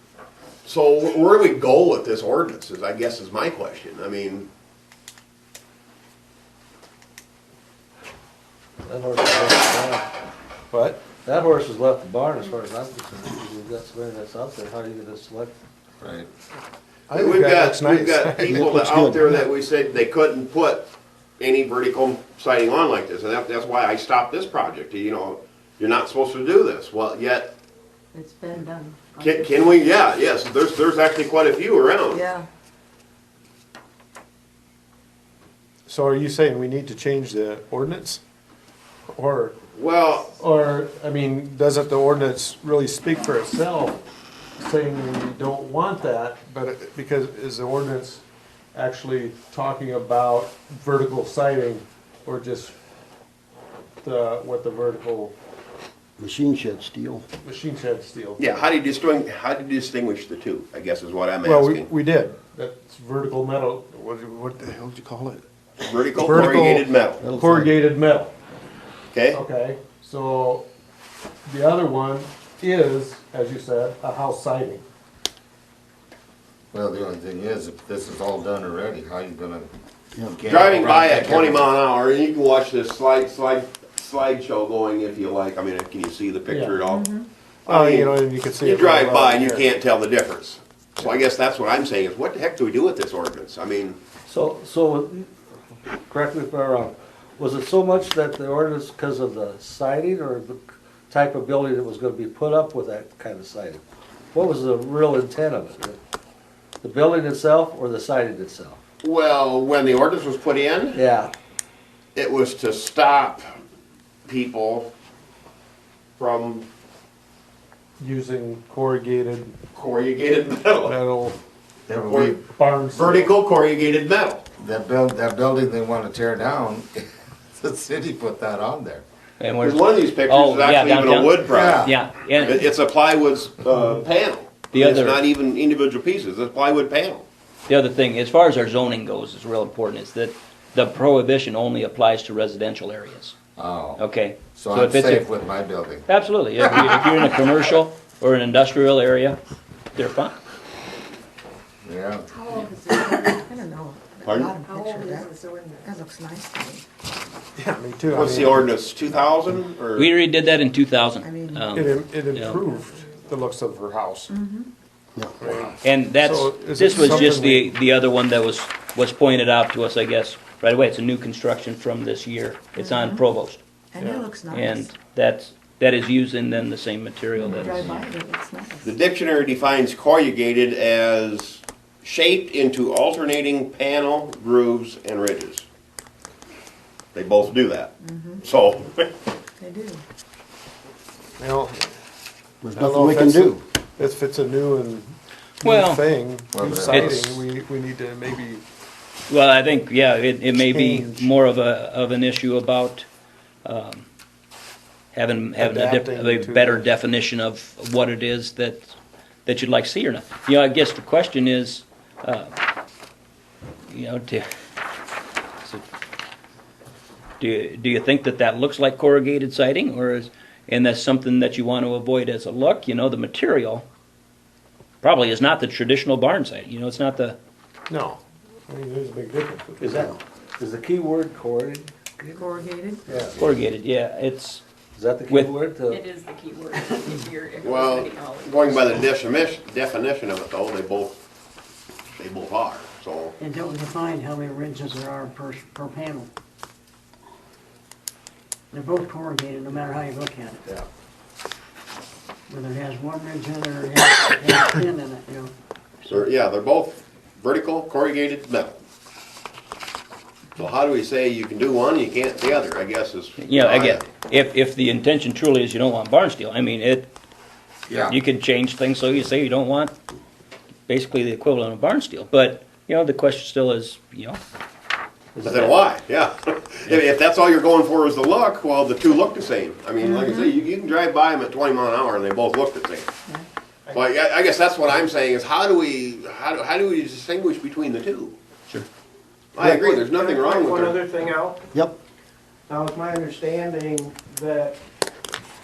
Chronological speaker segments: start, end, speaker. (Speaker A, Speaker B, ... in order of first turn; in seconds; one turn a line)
Speaker A: 0.6-4.5
Speaker B: 8.8-10.1
Speaker C: 10.7-11.2
Speaker B: 11.2-15.5
Speaker D: 16.0-16.3
Speaker C: 17.1-18.6
Speaker A: 17.1-27.6
Speaker E: 18.4-19.4
Speaker F: 28.1-29.6
Speaker A: 29.2-32.2
Speaker F: 32.1-32.4
Speaker C: 35.9-38.2
Speaker C: 39.1-39.6
Speaker A: 39.7-40.3
Speaker C: 40.3-44.0
Speaker C: 44.6-48.2
Speaker C: 48.7-52.7
Speaker C: 54.0-55.3
Speaker E: 56.2-57.2
Speaker C: 57.4-58.4
Speaker A: 58.4-61.9
Speaker C: 61.4-65.2
Speaker A: 65.8-67.2
Speaker C: 66.2-68.3
Speaker E: 67.2-67.7
Speaker A: 69.1-69.4
Speaker C: 69.3-70.7
Speaker C: 71.5-74.8
Speaker D: 76.7-79.7
Speaker E: 80.1-81.1
Speaker D: 80.2-81.7
Speaker A: 80.5-94.0
Speaker C: 86.5-86.8
Speaker F: 86.9-87.2
Speaker C: 87.7-89.7
Speaker B: 94.3-95.3
Speaker B: 96.1-103.8
Speaker B: 104.3-106.0
Speaker B: 106.8-108.8
Speaker A: 109.0-111.0
Speaker B: 110.9-111.3
Speaker A: 112.2-113.5
Speaker A: 114.2-114.9
Speaker A: 116.2-116.6
Speaker C: 118.0-119.5
Speaker A: 119.7-120.9
Speaker C: 120.8-121.4
Speaker D: 121.9-122.4
Speaker A: 122.1-122.3
Speaker C: 122.5-123.3
Speaker A: 122.9-124.4
Speaker D: 124.6-129.0
Speaker G: 129.4-132.7
Speaker A: 129.6-137.2
Speaker D: 131.5-131.9
Speaker G: 134.7-135.2
Speaker G: 137.7-143.3
Speaker D: 143.6-144.0
Speaker G: 143.9-145.3
Speaker D: 144.5-146.1
Speaker G: 146.1-149.4
Speaker G: 149.9-150.4
Speaker D: 151.8-152.3
Speaker F: 152.4-156.8
Speaker A: 154.2-154.5
Speaker B: 154.7-155.2
Speaker C: 157.6-158.7
Speaker A: 158.1-160.1
Speaker G: 159.9-162.6
Speaker F: 161.2-161.7
Speaker C: 161.7-164.3
Speaker F: 164.3-164.7
Speaker C: 165.4-167.7
Speaker G: 165.8-173.6
Speaker F: 172.8-173.2
Speaker F: 173.9-174.9
Speaker C: 174.0-174.3
Speaker G: 174.5-178.1
Speaker F: 177.4-178.9
Speaker A: 178.8-185.7
Speaker A: 187.1-189.1
Speaker F: 188.0-188.4
Speaker F: 189.6-190.0
Speaker C: 191.4-191.8
Speaker E: 192.6-193.6
Speaker C: 192.7-195.1
Speaker C: 195.6-198.6
Speaker G: 195.6-196.1
Speaker D: 196.5-197.2
Speaker G: 196.9-197.4
Speaker G: 199.3-203.1
Speaker C: 200.5-201.3
Speaker G: 203.6-204.0
Speaker G: 205.1-208.9
Speaker C: 205.6-206.9
Speaker G: 209.4-212.6
Speaker G: 213.9-214.4
Speaker G: 217.4-223.8
Speaker G: 225.0-227.4
Speaker C: 227.9-229.8
Speaker B: 229.8-232.6
Speaker F: 232.3-233.0
Speaker D: 233.1-233.6
Speaker G: 233.4-234.6
Speaker B: 234.9-236.0
Speaker H: 235.9-238.5
Speaker A: 237.6-241.2
Speaker A: 242.2-243.3
Speaker I: 243.4-246.3
Speaker I: 248.7-250.8
Speaker I: 252.5-255.5
Speaker A: 256.1-258.8
Speaker A: 260.6-264.1
Speaker G: 263.4-267.1
Speaker D: 267.9-268.2
Speaker G: 268.1-269.9
Speaker G: 270.9-274.4
Speaker B: 275.3-275.7
Speaker A: 275.4-283.1
Speaker F: 280.0-280.5
Speaker A: 283.9-288.4
Speaker A: 289.5-291.0
Speaker J: 289.6-291.6
Speaker J: 292.7-294.8